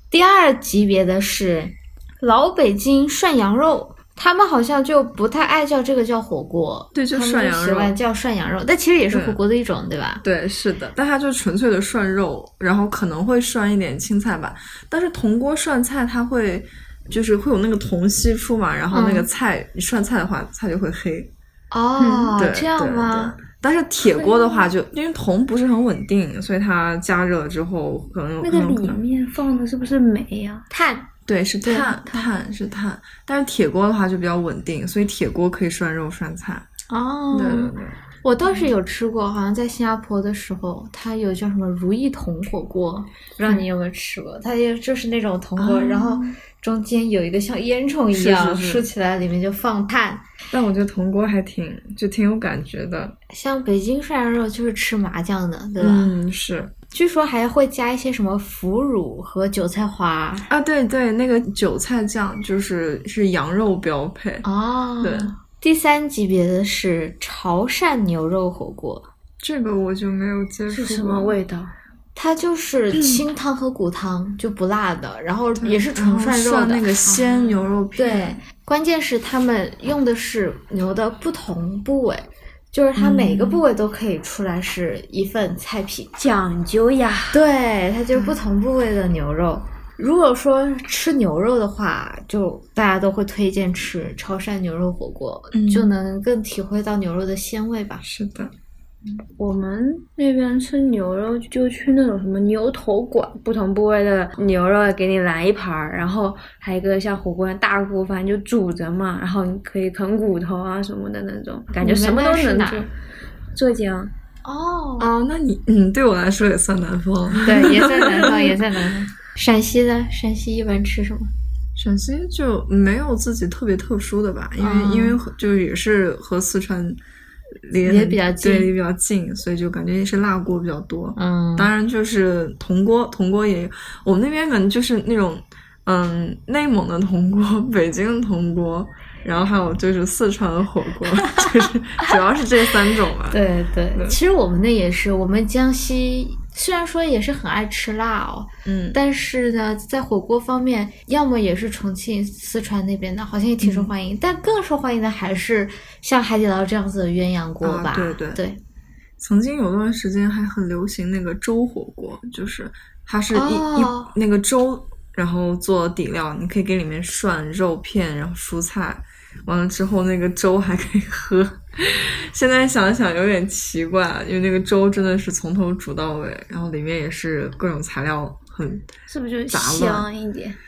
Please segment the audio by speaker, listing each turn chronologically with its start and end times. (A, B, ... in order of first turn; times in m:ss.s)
0:00.1-0:10.2 A
0:06.9-0:08.0 B
0:09.1-0:09.4 B
0:10.2-0:21.3 B
0:18.9-0:19.3 A
0:21.7-0:23.4 A
0:22.0-0:22.3 C
0:22.4-0:29.0 B
0:24.1-0:24.7 C
0:28.4-0:30.7 C
0:30.7-0:31.1 A
0:31.3-0:36.7 B
0:31.7-0:32.3 C
0:36.9-0:50.2 A
0:37.3-0:38.0 B
0:45.6-0:46.4 B
0:48.1-0:48.9 B
0:50.5-0:53.2 B
0:53.3-0:56.1 A
0:55.8-0:56.7 B
0:56.9-1:00.5 A
1:00.5-1:04.5 B
1:04.4-1:09.1 A
1:05.0-1:05.3 B
1:09.4-1:11.4 B
1:10.7-1:11.7 C
1:12.2-1:17.0 A
1:15.6-1:18.4 B
1:17.2-1:17.6 C
1:18.0-1:26.1 A
1:23.0-1:23.6 B
1:26.2-1:27.4 C
1:27.3-1:38.0 A
1:35.5-1:35.9 B
1:38.0-1:38.5 B
1:39.4-1:52.9 C
1:51.8-1:52.9 A
1:53.5-1:54.1 C
1:54.4-1:55.1 A
1:55.0-1:58.5 B
1:57.4-2:01.3 A
1:57.5-1:58.4 C
2:01.8-2:07.0 B
2:04.6-2:05.2 A
2:07.6-2:23.4 B
2:07.8-2:08.7 A
2:11.2-2:11.7 A
2:23.3-2:38.6 A
2:28.7-2:29.0 B
2:33.6-2:33.9 B
2:37.6-2:38.4 B
2:39.2-2:58.9 B
2:43.3-2:44.1 A
2:59.1-3:00.6 C
2:59.5-3:00.1 B